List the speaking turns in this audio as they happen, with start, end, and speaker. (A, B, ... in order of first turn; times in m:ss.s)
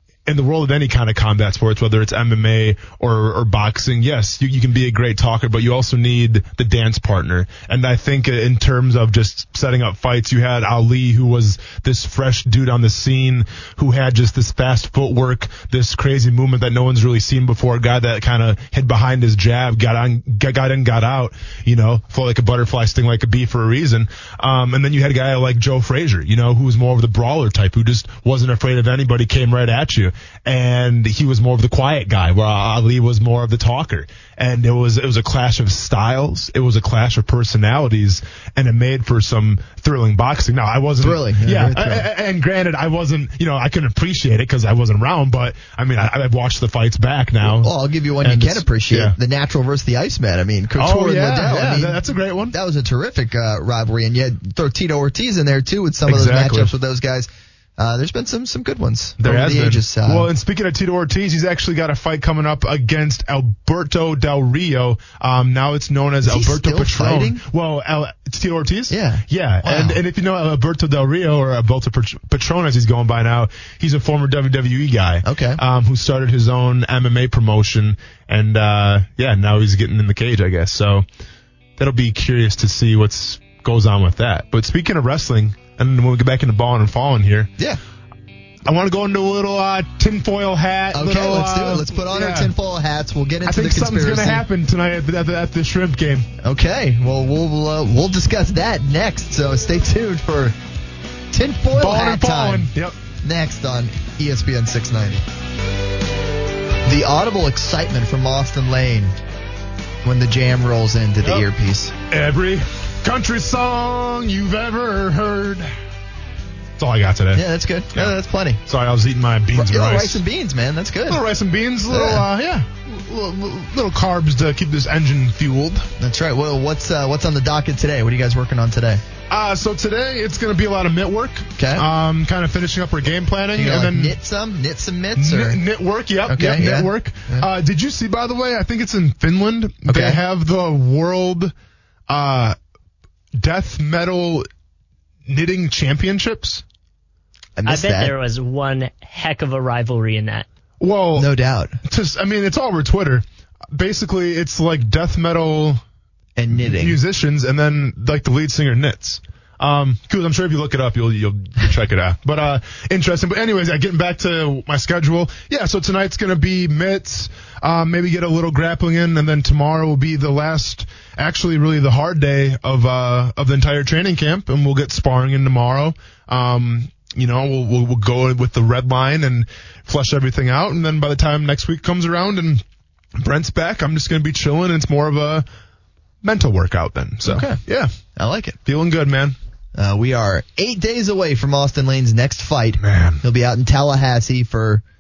0:00.3-0:49.2 A
0:41.0-0:42.1 B
0:47.4-1:00.3 B
0:50.8-0:52.6 A
0:56.1-0:56.7 A
0:59.2-1:21.0 A
1:06.2-1:07.4 B
1:08.9-1:10.0 B
1:15.2-1:15.6 B
1:21.8-1:27.5 A
1:28.6-1:32.5 A
1:30.9-1:34.4 B
1:33.4-1:36.3 A
1:36.4-1:40.6 B
1:41.3-1:42.7 B
1:41.7-1:42.9 A
1:43.2-1:45.2 B
1:46.8-1:49.1 B
1:50.0-1:51.9 B
1:52.1-1:55.7 A
1:56.8-1:58.2 A
1:57.3-1:58.6 B
1:58.7-2:00.2 A
1:59.5-2:01.2 B
2:01.1-2:05.9 A
2:01.9-2:02.3 B
2:06.0-2:09.0 B
2:09.3-2:14.2 A
2:11.6-2:11.9 B
2:13.6-2:15.6 B
2:15.2-2:21.5 A
2:16.3-2:17.5 B
2:19.9-2:20.2 B
2:22.1-2:22.6 A
2:23.4-2:24.5 A
2:25.3-2:26.6 A
2:27.6-2:28.1 B
2:27.7-2:30.5 C
2:30.8-2:31.3 A
2:31.2-2:31.8 B
2:31.8-2:35.8 A
2:36.4-2:37.0 B
2:36.6-3:02.6 A
3:03.2-3:05.4 A
3:06.2-3:07.9 A
3:07.2-3:07.6 B
3:08.2-3:08.6 B
3:08.7-3:09.4 A
3:09.8-3:14.8 B
3:12.8-3:13.2 A